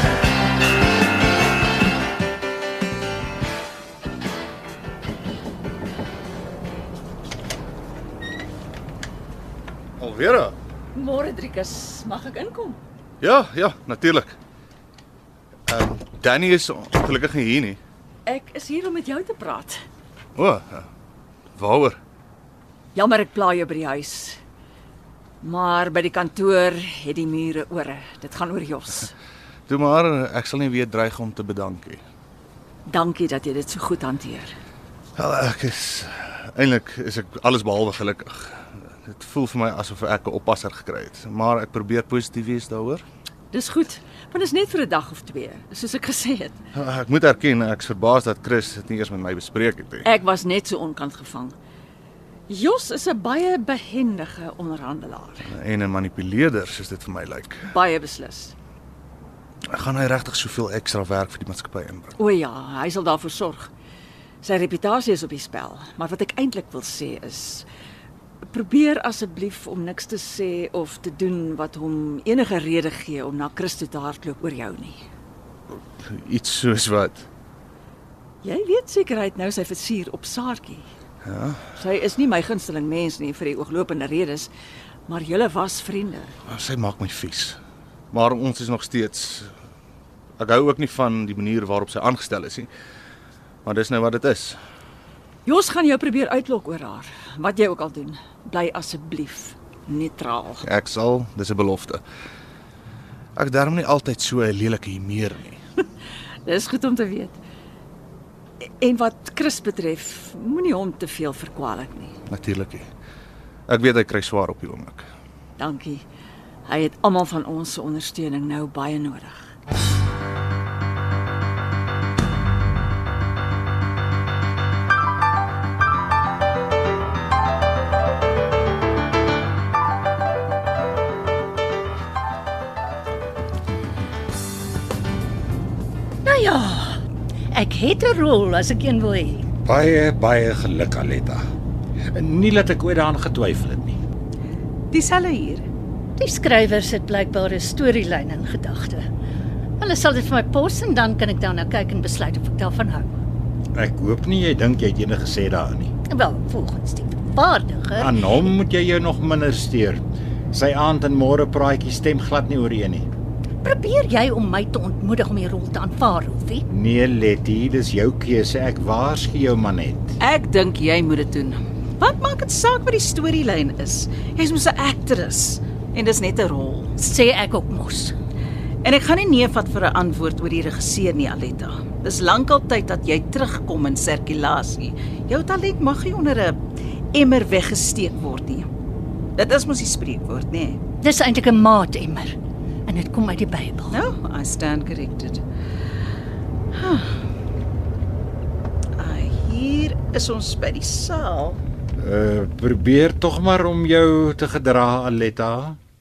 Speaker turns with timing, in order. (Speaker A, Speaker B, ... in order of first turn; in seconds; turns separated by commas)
Speaker A: 10.0-10.6, Speaker B: 10.9-12.8, Speaker A: 13.2-14.3, Speaker A: 15.7-17.8, Speaker B: 18.2-19.8, Speaker A: 20.3-20.9, Speaker A: 21.5-22.0, Speaker B: 22.9-24.4, Speaker B: 25.4-29.1, Speaker A: 29.7-32.0, Speaker B: 32.9-34.5, Speaker A: 35.1-43.0, Speaker B: 43.5-46.6, Speaker A: 46.7-50.1, Speaker B: 50.0-51.5, Speaker B: 52.5-55.5, Speaker A: 55.5-57.7, Speaker B: 57.7-58.5, Speaker A: 59.7-62.1, Speaker B: 62.2-63.7, Speaker B: 64.4-67.7, Speaker B: 68.5-75.0, Speaker A: 75.7-77.3, Speaker B: 78.4-80.9, Speaker A: 81.2-81.7, Speaker B: 81.8-84.5, Speaker B: 85.1-86.3, Speaker A: 86.5-87.6, Speaker A: 88.1-89.5, Speaker A: 90.4-92.7, Speaker A: 93.6-94.6, Speaker B: 95.5-100.6, Speaker A: 100.6-102.0, Speaker A: 103.3-105.6, Speaker B: 106.5-107.4, Speaker B: 108.8-112.2, Speaker A: 112.3-112.9, Speaker A: 113.7-115.1, Speaker B: 115.6-116.0, Speaker B: 116.7-119.5, Speaker C: 136.2-137.0, Speaker C: 137.5-139.5, Speaker D: 139.6-141.4, Speaker D: 142.1-144.0, Speaker E: 144.9-145.7, Speaker C: 146.2-149.0, Speaker C: 149.8-153.2, Speaker D: 153.7-155.9, Speaker C: 156.1-158.2, Speaker D: 157.9-163.1, Speaker C: 163.6-166.6, Speaker D: 166.7-170.2, Speaker E: 170.2-177.0, Speaker C: 177.0-178.2, Speaker E: 178.8-186.6, Speaker E: 187.1-188.7, Speaker E: 189.3-190.8, Speaker C: 191.0-194.0, Speaker E: 193.9-195.4, Speaker E: 196.7-197.2, Speaker E: 198.9-201.6, Speaker D: 201.9-205.8